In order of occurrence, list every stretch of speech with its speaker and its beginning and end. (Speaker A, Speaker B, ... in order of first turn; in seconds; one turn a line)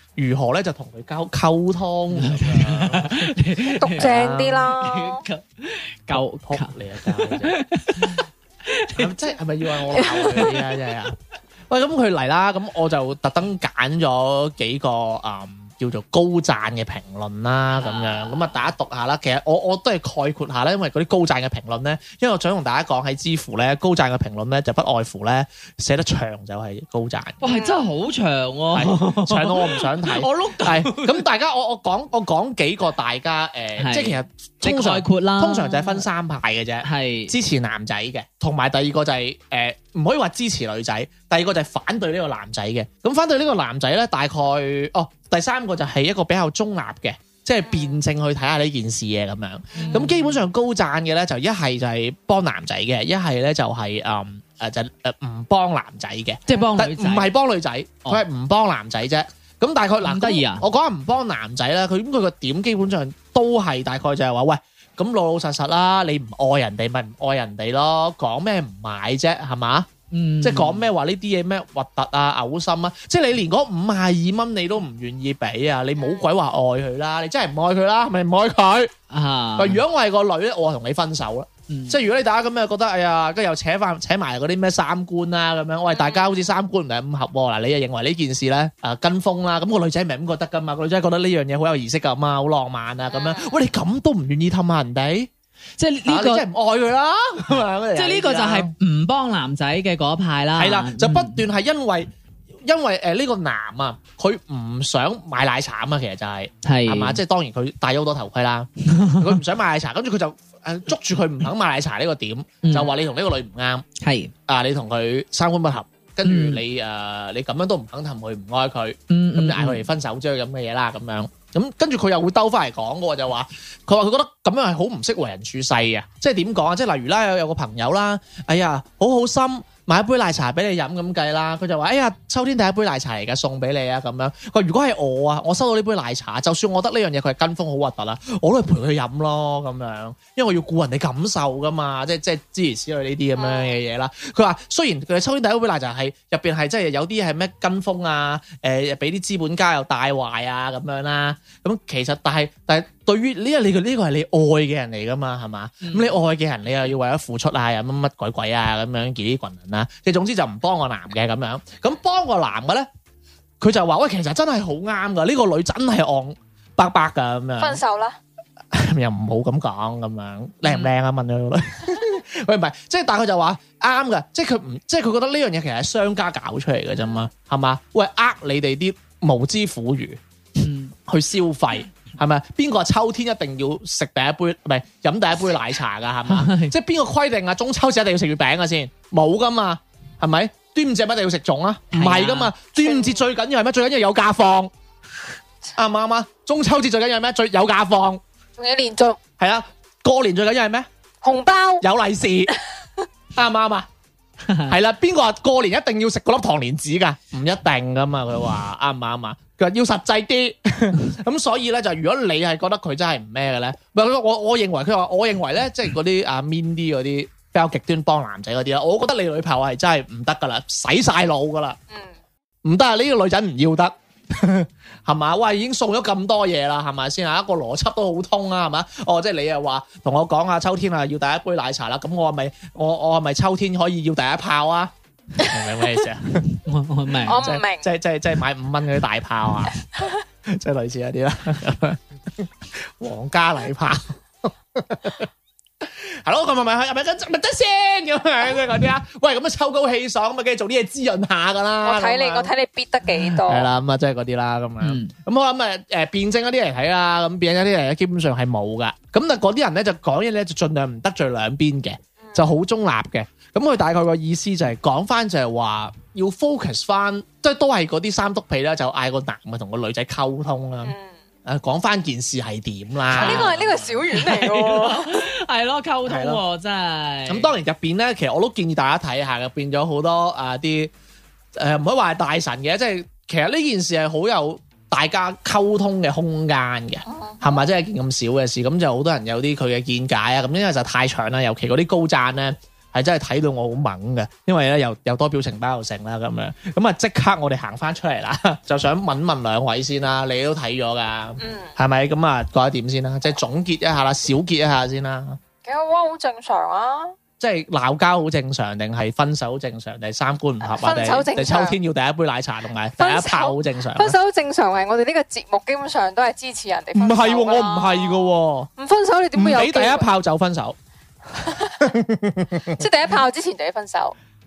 Speaker A: 0.2-3.4
Speaker B: 2.1-4.1
Speaker C: 3.8-5.2
Speaker A: 3.9-4.7
Speaker B: 4.7-9.1
Speaker A: 6.1-8.2
Speaker A: 8.9-11.2
Speaker B: 9.9-10.5
Speaker C: 10.0-10.5
Speaker A: 11.7-27.4
Speaker B: 17.7-18.4
Speaker B: 27.4-31.2
Speaker C: 27.4-27.8
Speaker A: 28.7-69.9
Speaker B: 33.8-36.0
Speaker B: 36.8-37.3
Speaker C: 47.7-48.0
Speaker C: 49.7-50.0
Speaker B: 49.8-50.4
Speaker B: 56.5-57.3
Speaker B: 60.0-60.6
Speaker B: 70.1-70.9
Speaker A: 70.4-78.9
Speaker C: 76.0-76.3
Speaker B: 79.1-79.8
Speaker A: 79.6-95.3
Speaker B: 81.7-82.0
Speaker C: 85.9-86.3
Speaker C: 93.1-93.5
Speaker B: 95.8-96.5
Speaker A: 96.0-98.7
Speaker B: 97.9-101.4
Speaker A: 100.5-102.1
Speaker A: 102.6-113.8
Speaker B: 106.6-107.2
Speaker B: 108.9-109.4
Speaker B: 112.6-112.9
Speaker B: 114.0-114.3
Speaker A: 114.5-162.9
Speaker B: 116.2-116.6
Speaker B: 119.1-119.8
Speaker C: 143.4-143.8
Speaker B: 155.8-156.1
Speaker A: 163.6-167.8
Speaker C: 167.6-168.2
Speaker A: 168.7-180.2
Speaker B: 170.6-170.9
Speaker B: 180.6-180.9
Speaker A: 181.1-194.7
Speaker B: 186.3-186.7
Speaker B: 191.9-192.5
Speaker C: 192.8-193.2
Speaker A: 195.8-198.2
Speaker C: 198.6-199.2
Speaker A: 199.4-200.9
Speaker C: 201.2-201.8
Speaker A: 201.8-202.5
Speaker A: 203.3-203.9
Speaker B: 204.5-204.7
Speaker A: 204.7-221.8
Speaker A: 222.6-236.6
Speaker B: 236.6-237.4
Speaker C: 237.3-237.9
Speaker A: 237.3-239.8
Speaker A: 240.4-245.3
Speaker A: 245.8-252.5
Speaker C: 251.8-253.7
Speaker A: 253.1-270.9
Speaker B: 254.8-255.1
Speaker C: 262.2-262.5
Speaker A: 271.4-273.9
Speaker B: 273.1-277.5
Speaker C: 273.1-275.2
Speaker A: 276.1-276.4
Speaker A: 277.3-280.9
Speaker A: 281.5-305.4
Speaker C: 287.1-287.6
Speaker C: 301.4-301.7
Speaker C: 305.6-307.1
Speaker A: 307.4-314.2
Speaker C: 310.6-311.8
Speaker C: 313.0-320.1
Speaker A: 316.9-318.7
Speaker A: 319.3-320.8
Speaker C: 321.4-321.8
Speaker A: 321.5-322.9
Speaker C: 322.8-324.1